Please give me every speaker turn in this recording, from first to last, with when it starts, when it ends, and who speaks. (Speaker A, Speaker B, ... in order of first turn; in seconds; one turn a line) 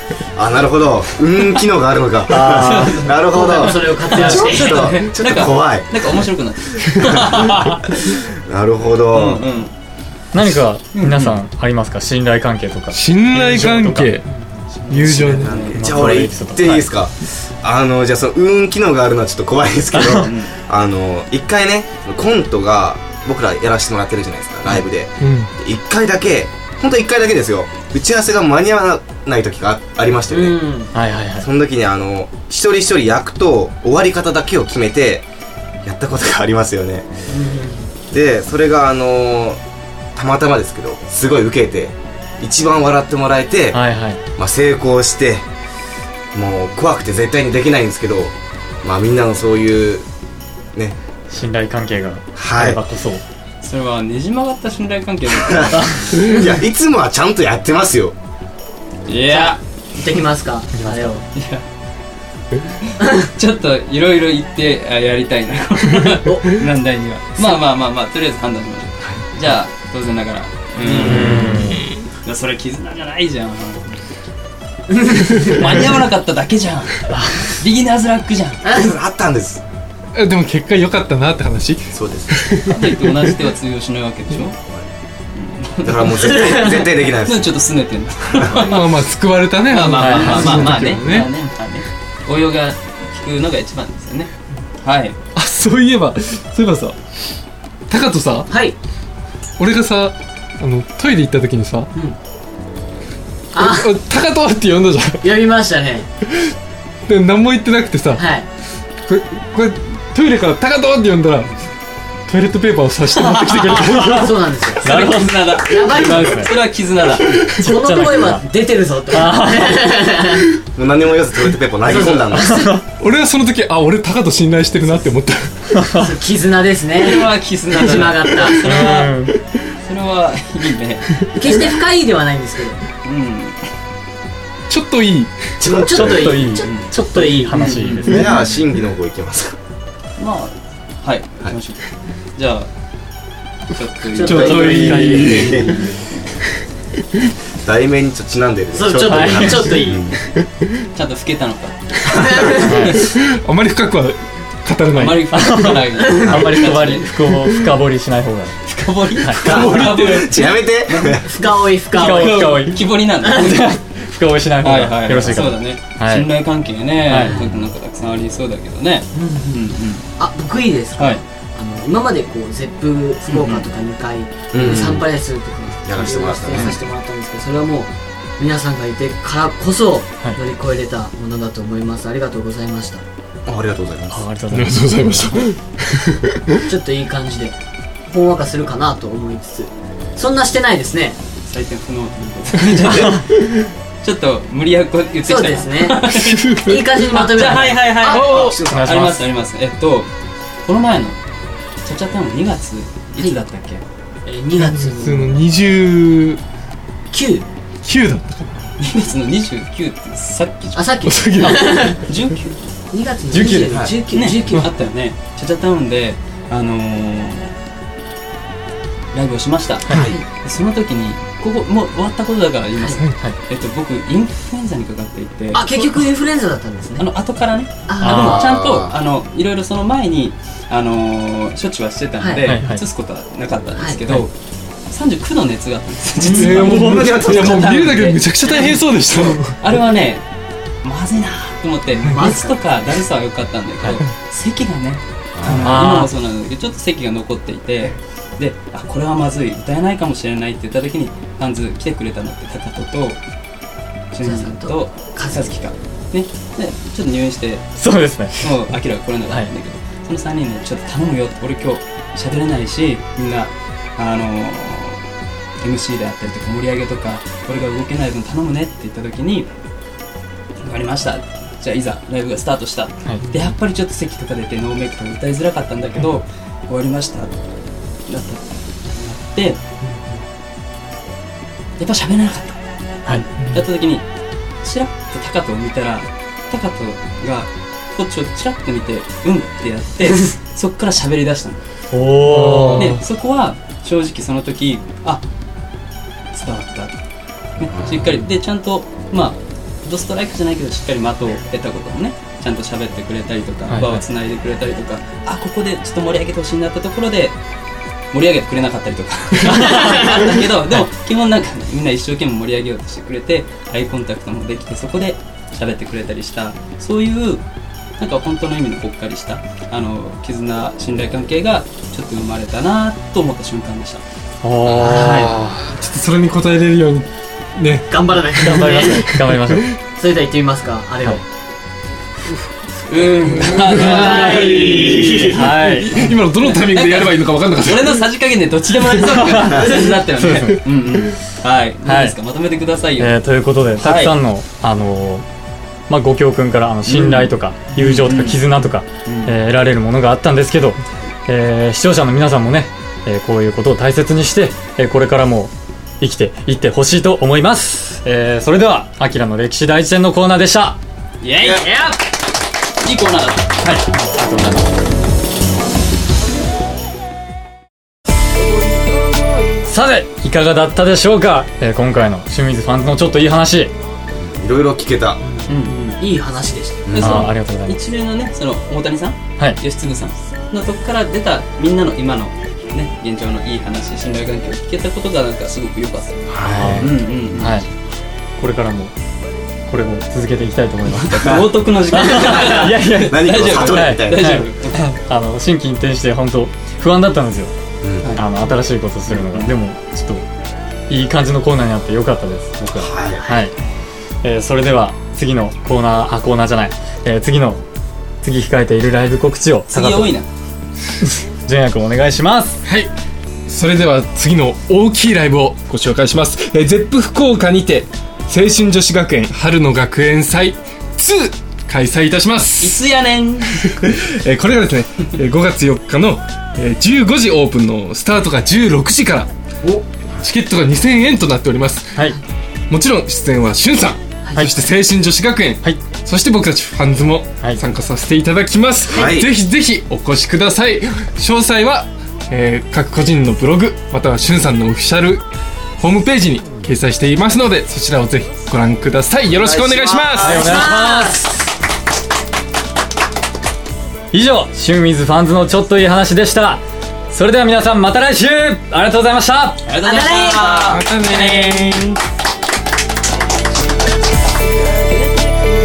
Speaker A: 0.3-6.3
Speaker B: 2.3-3.1
Speaker C: 2.5-7.9
Speaker D: 3.3-5.0
Speaker A: 7.0-9.4
Speaker C: 9.1-9.7
Speaker B: 10.3-14.2
Speaker C: 10.9-11.4
Speaker E: 12.9-14.3
Speaker C: 14.7-15.8
Speaker E: 14.9-15.5
Speaker A: 15.3-30.6
Speaker B: 15.7-16.8
Speaker B: 20.0-20.3
Speaker C: 20.1-20.5
Speaker E: 25.2-25.5
Speaker D: 30.3-30.9
Speaker B: 30.9-31.5
Speaker A: 31.4-35.2
Speaker A: 35.8-37.1
Speaker D: 37.3-38.0
Speaker A: 38.0-39.6
Speaker A: 40.1-43.8
Speaker B: 43.7-44.2
Speaker A: 44.4-45.4
Speaker A: 46.3-50.0
Speaker B: 51.3-53.2
Speaker A: 52.4-52.8
Speaker C: 53.6-56.3
Speaker A: 55.4-58.1
Speaker C: 59.1-59.6
Speaker D: 59.3-61.2
Speaker B: 60.7-61.2
Speaker C: 61.3-61.6
Speaker C: 63.0-71.7
Speaker D: 66.2-66.5
Speaker D: 70.8-71.2
Speaker B: 71.0-71.9
Speaker A: 71.1-71.6
Speaker E: 71.4-71.9
Speaker C: 72.2-74.0
Speaker D: 74.9-75.7
Speaker C: 75.3-78.7
Speaker B: 77.1-77.5
Speaker D: 78.6-79.0
Speaker A: 78.7-79.6
Speaker E: 80.1-83.3
Speaker A: 81.9-82.4
Speaker C: 82.7-84.6
Speaker C: 85.3-86.3
Speaker A: 85.8-87.6
Speaker D: 86.2-86.8
Speaker C: 87.2-88.8
Speaker A: 88.3-88.7
Speaker E: 88.5-91.3
Speaker C: 89.7-95.2
Speaker B: 90.0-91.0
Speaker E: 95.3-97.0
Speaker E: 97.9-98.5
Speaker D: 98.5-98.8
Speaker E: 99.6-101.9
Speaker D: 103.5-103.9
Speaker E: 103.6-105.3
Speaker D: 105.2-106.1
Speaker E: 107.0-108.2
Speaker D: 108.1-108.5
Speaker E: 109.1-111.5
Speaker E: 112.3-114.4
Speaker C: 113.3-113.9
Speaker B: 113.5-116.5
Speaker D: 113.9-114.8
Speaker C: 114.8-117.3
Speaker D: 115.6-116.4
Speaker B: 117.2-118.5
Speaker D: 117.6-120.6
Speaker B: 119.1-119.9
Speaker A: 120.7-122.6
Speaker D: 121.8-122.7
Speaker B: 122.3-122.8
Speaker E: 123.0-125.5
Speaker B: 125.7-126.0
Speaker D: 125.9-128.6
Speaker C: 127.0-129.1
Speaker B: 128.6-129.3
Speaker C: 129.8-131.1
Speaker D: 131.3-132.8
Speaker C: 133.0-133.6
Speaker E: 134.7-135.6
Speaker A: 135.6-136.4
Speaker D: 135.6-137.8
Speaker B: 135.8-138.3
Speaker C: 136.5-136.9
Speaker C: 137.5-138.2
Speaker A: 138.0-139.5
Speaker C: 140.2-142.7
Speaker C: 143.7-144.9
Speaker D: 144.1-145.9
Speaker E: 144.2-145.6
Speaker B: 144.3-145.6
Speaker A: 145.2-145.7
Speaker C: 145.7-146.0
Speaker A: 147.6-150.2
Speaker D: 148.7-150.1
Speaker B: 149.1-149.8
Speaker C: 150.9-153.0
Speaker D: 152.3-152.7
Speaker B: 152.5-153.0
Speaker E: 153.0-155.6
Speaker C: 154.9-157.1
Speaker B: 155.3-158.6
Speaker D: 156.0-156.3
Speaker A: 156.3-156.6
Speaker C: 158.7-161.2
Speaker B: 159.2-159.4
Speaker E: 159.4-160.5
Speaker A: 159.4-161.3
Speaker D: 161.2-162.5
Speaker B: 161.9-166.3
Speaker E: 162.1-162.6
Speaker C: 162.3-163.7
Speaker C: 164.6-170.1
Speaker B: 167.1-167.4
Speaker D: 169.1-169.7
Speaker D: 170.2-183.0
Speaker C: 170.9-171.2
Speaker C: 173.3-173.7
Speaker A: 174.5-175.1
Speaker A: 175.8-176.8
Speaker B: 176.5-176.8
Speaker A: 183.4-184.2
Speaker B: 184.1-185.5
Speaker E: 184.5-186.2
Speaker D: 186.7-187.5
Speaker D: 188.1-191.2
Speaker C: 191.4-193.2
Speaker C: 194.0-200.1
Speaker D: 195.2-198.4
Speaker E: 196.2-196.8
Speaker E: 198.0-198.6
Speaker B: 198.5-199.3
Speaker C: 200.6-201.2
Speaker C: 201.8-203.8
Speaker D: 204.2-205.4
Speaker E: 204.6-206.4
Speaker D: 207.1-207.4
Speaker E: 207.8-208.7
Speaker C: 208.8-212.7
Speaker D: 210.7-212.0
Speaker E: 211.0-212.0
Speaker D: 212.9-214.7
Speaker B: 213.3-213.8
Speaker C: 213.3-217.6
Speaker A: 213.6-214.1
Speaker C: 219.1-226.0
Speaker B: 219.8-220.1
Speaker A: 219.9-220.2
Speaker D: 225.5-227.1
Speaker C: 227.0-234.3
Speaker D: 227.9-228.4
Speaker B: 228.0-228.4
Speaker A: 228.1-228.9
Speaker D: 232.2-232.5
Speaker B: 232.4-232.8
Speaker D: 233.7-234.0
Speaker C: 234.9-240.2
Speaker D: 236.2-238.1
Speaker E: 236.3-239.6
Speaker A: 236.4-237.9
Speaker C: 240.8-253.2
Speaker D: 242.0-242.8
Speaker A: 245.3-245.9
Speaker B: 245.6-246.1
Speaker C: 254.1-257.8
Speaker D: 254.2-255.5
Speaker B: 257.8-258.6
Speaker C: 258.4-265.1
Speaker C: 265.6-269.5
Speaker C: 270.6-277.3
Speaker C: 278.1-279.6
Speaker D: 279.8-280.2
Speaker C: 281.8-284.1
Speaker C: 284.6-291.6
Speaker B: 291.9-293.0
Speaker E: 292.4-292.7
Speaker C: 292.7-295.2
Speaker C: 296.3-296.9
Speaker C: 297.6-307.4
Speaker A: 297.6-298.1
Speaker B: 303.7-304.0
Speaker C: 308.1-317.4
Speaker C: 318.0-324.0
Speaker B: 324.4-325.7
Speaker C: 324.7-325.3
Speaker D: 324.8-325.3
Speaker E: 325.7-329.7
Speaker D: 327.9-329.1
Speaker B: 328.4-329.7
Speaker D: 329.9-331.2
Speaker C: 332.9-335.2
Speaker D: 333.7-335.4
Speaker E: 333.7-338.0
Speaker B: 335.1-336.1
Speaker C: 336.4-343.1
Speaker B: 339.1-340.7
Speaker B: 341.8-342.2
Speaker B: 343.0-345.2
Speaker C: 343.8-344.1
Speaker B: 345.9-360.8
Speaker C: 346.9-348.4
Speaker C: 349.0-349.3
Speaker C: 361.2-362.1
Speaker C: 362.8-363.8
Speaker B: 363.6-364.7
Speaker B: 369.6-373.7
Speaker A: 374.1-375.2
Speaker D: 375.2-376.9
Speaker C: 375.5-376.0
Speaker A: 376.9-377.2
Speaker B: 376.9-377.8
Speaker C: 376.9-387.6
Speaker A: 386.3-386.9
Speaker B: 386.4-387.7
Speaker B: 388.4-388.9
Speaker B: 389.7-391.3
Speaker C: 390.9-394.8
Speaker A: 391.2-391.5
Speaker B: 391.9-397.5
Speaker A: 393.0-394.4
Speaker A: 397.8-398.2
Speaker C: 398.0-398.4
Speaker B: 398.1-400.2
Speaker C: 399.1-399.5
Speaker B: 400.9-403.6
Speaker A: 402.7-403.2
Speaker B: 404.2-407.6
Speaker B: 408.2-410.1
Speaker C: 409.7-410.3
Speaker B: 411.0-412.6
Speaker E: 412.6-412.9
Speaker E: 413.5-422.8
Speaker C: 422.6-423.6
Speaker E: 423.6-429.3
Speaker E: 430.2-432.0
Speaker E: 432.7-445.2
Speaker B: 434.4-434.7
Speaker A: 438.9-439.3
Speaker E: 445.8-450.4
Speaker A: 449.3-450.5
Speaker B: 450.2-451.2
Speaker D: 450.2-451.3
Speaker B: 454.1-459.6
Speaker C: 459.6-461.4
Speaker D: 459.8-460.8
Speaker E: 460.5-462.0